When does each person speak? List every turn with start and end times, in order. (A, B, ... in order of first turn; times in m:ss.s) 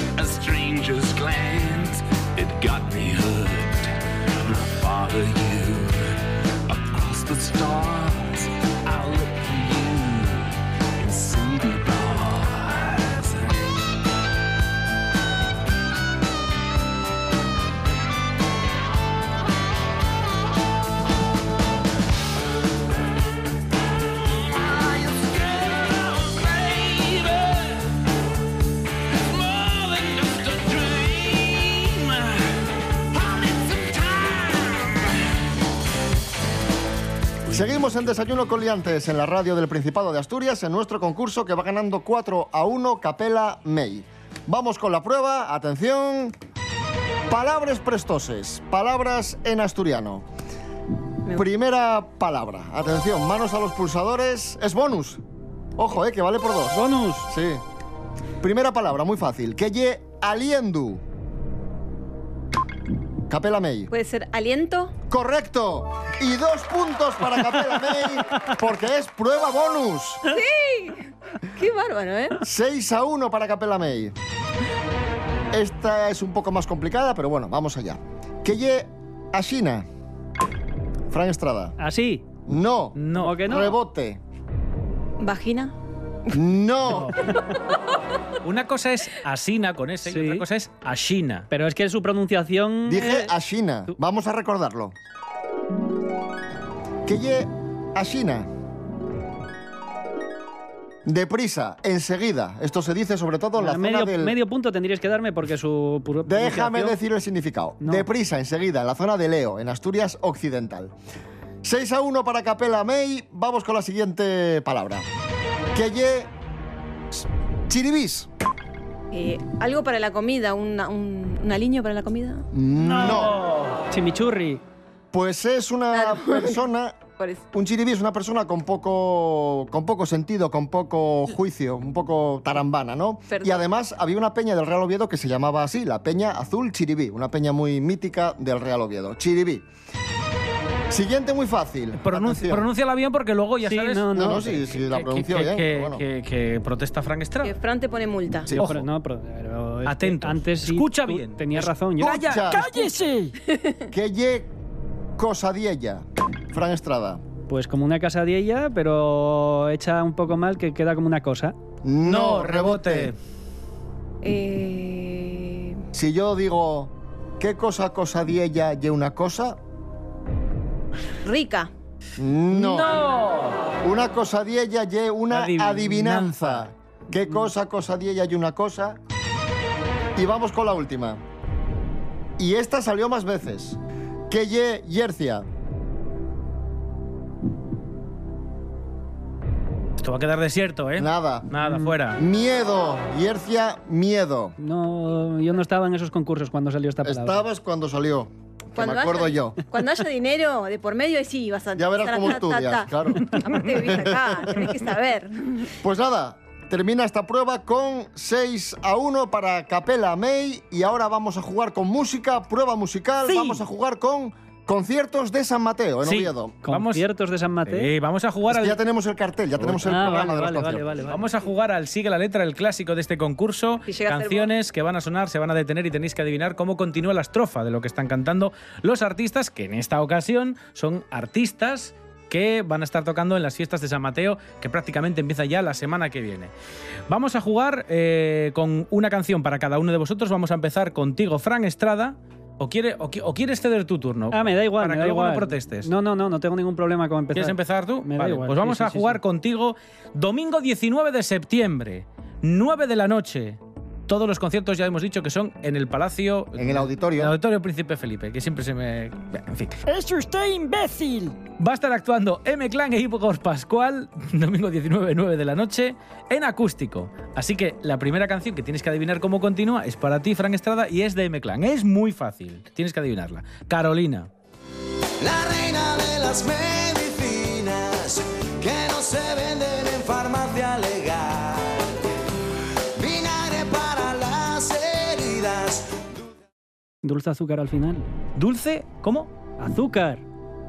0:00.2-0:13.7 A
0:24.4-0:27.9 A
0:29.1-0:32.6 A
0:33.1-0:35.1 A
0:37.5-0:46.3 B
0:47.3-0:50.2 B
0:51.3-0:55.2 B
0:55.8-0:57.6 B
0:56.7-0:57.3 C
0:58.4-1:01.0 B
1:03.3-1:03.9 B
1:03.9-1:04.9 D
1:05.1-1:10.3 B
1:10.3-1:12.4 D
1:12.4-1:14.1 B
1:15.5-1:19.8 B
1:21.1-1:21.8 B
1:21.8-1:22.2 C
1:22.5-1:24.2 B
1:23.0-1:23.4 E
1:23.1-1:23.7 C
1:25.2-1:25.7 D
1:26.3-1:27.2 B
1:28.4-1:31.5 E
1:30.0-1:30.4 C
1:31.5-1:33.3 C
1:32.8-1:34.9 B
1:37.0-1:38.5 B
1:41.0-1:44.4 B
1:43.6-1:47.0 C
1:46.2-1:50.9 B
1:51.6-1:55.1 B
1:55.7-1:56.3 B
1:57.1-1:58.3 B
1:59.1-2:02.5 D
2:02.5-2:03.3 B
2:02.8-2:03.9 E
2:03.9-2:04.6 C
2:05.1-2:07.0 B
2:05.9-2:06.6 D
2:07.2-2:07.4 D
2:07.5-2:19.6 B
2:13.3-2:13.6 D
2:20.9-2:22.7 B
2:22.0-2:27.5 E
2:23.6-2:24.6 C
2:24.1-2:26.0 B
2:27.4-2:28.5 D
2:28.5-2:28.8 E
2:28.5-2:32.6 C
2:29.8-2:32.2 E
2:32.0-2:32.7 B
2:32.2-2:33.3 F
2:33.5-2:33.8 D
2:33.9-2:34.5 B
2:35.2-2:37.2 B
2:37.5-2:41.5 C
2:41.8-2:43.1 B
2:42.0-2:43.2 E
2:44.2-2:45.8 D
2:45.9-2:49.6 B
2:51.2-2:51.7 D
2:52.2-2:53.0 B
2:52.5-2:53.7 E
2:53.8-2:59.0 B
2:55.3-2:56.7 E
3:00.2-3:01.2 B
3:02.4-3:05.5 B
3:10.0-3:12.2 E
3:11.0-3:11.6 B
3:12.1-3:14.6 B
3:14.6-3:17.4 C
3:17.0-3:19.6 B
3:18.8-3:25.7 D
3:21.8-3:24.7 B
3:25.8-3:36.5 B
3:36.0-3:37.0 E
3:36.6-3:37.9 C
3:37.6-3:38.8 E
3:38.5-3:40.9 B
3:39.8-3:41.4 C
3:41.0-3:56.5 E
3:43.9-3:44.5 D
3:57.1-4:05.9 E
4:04.3-4:09.2 C
4:07.3-4:19.8 E
4:16.6-4:17.3 B
4:19.8-4:21.4 F
4:21.6-4:34.3 E
4:35.2-4:42.0 G
4:42.9-4:46.2 G
4:47.0-4:48.1 C
4:48.4-4:49.3 E
4:49.6-4:50.2 C